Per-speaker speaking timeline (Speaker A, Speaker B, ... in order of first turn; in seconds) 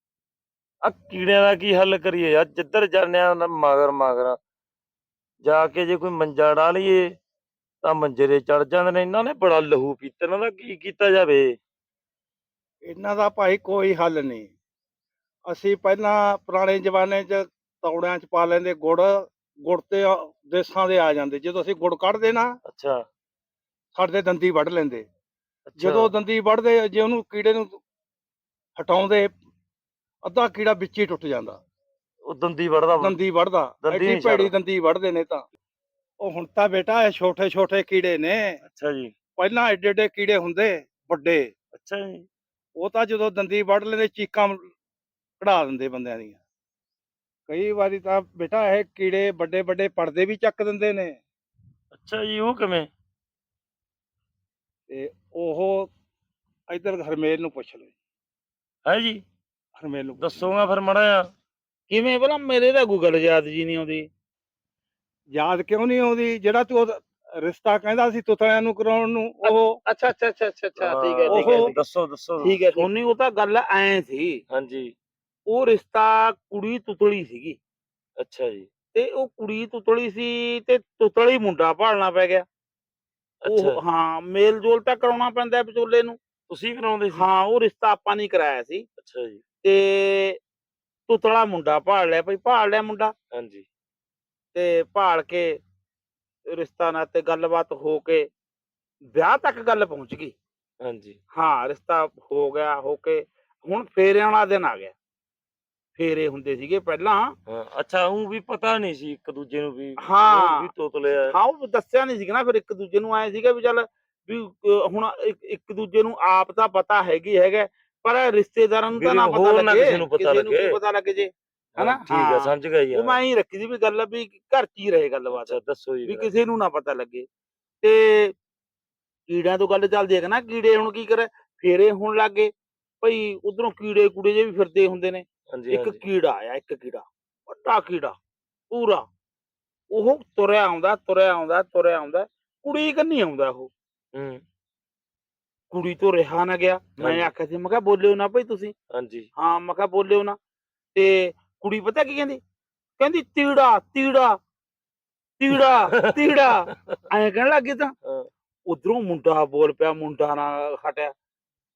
Speaker A: 0.8-4.4, 5.4-7.0, 7.8-11.5, 22.6-23.0, 25.7-26.1, 32.3-33.1, 33.8-34.5, 38.6-39.1, 41.7-42.2, 51.9-52.9, 58.9-59.2, 60.2-61.3, 70.8-72.9, 74.5-74.9, 78.2-78.7, 83.4-83.8, 86.5-87.3, 89.0-89.4, 93.3-93.7, 100.8-101.2, 107.5-111.3, 118.9-120.8, 121.8-123.2, 125.3-126.3, 135.5-136.0, 144.1-144.4, 147.0-147.3, 148.9-149.3, 155.6-156.2
Speaker B: 12.8-14.5, 15.5-22.5, 23.9-25.0, 25.8-27.8, 28.8-29.3, 30.2-31.6, 33.0-35.5, 36.2-38.6, 39.4-41.5, 42.8-44.7, 45.4-46.4, 47.5-51.2, 54.9-55.9, 56.7-57.9, 59.8-60.5, 65.3-69.8, 71.3-71.7
Speaker C: 61.9-64.1, 69.4-71.7, 72.4-74.4, 75.5-77.6, 78.9-82.4, 83.5-86.2, 87.1-88.8, 89.6-90.4, 91.1-93.1, 94.5-95.6, 96.5-98.3, 99.1-100.3, 101.3-104.9, 106.0-107.3, 110.0-110.7, 111.2-127.2, 127.8-128.3, 129.3-138.2, 138.7-139.0, 139.9-143.7, 145.7-148.7, 149.4-150.4, 150.9-152.4, 153.0-154.4, 155.4-157.9, 158.7-161.1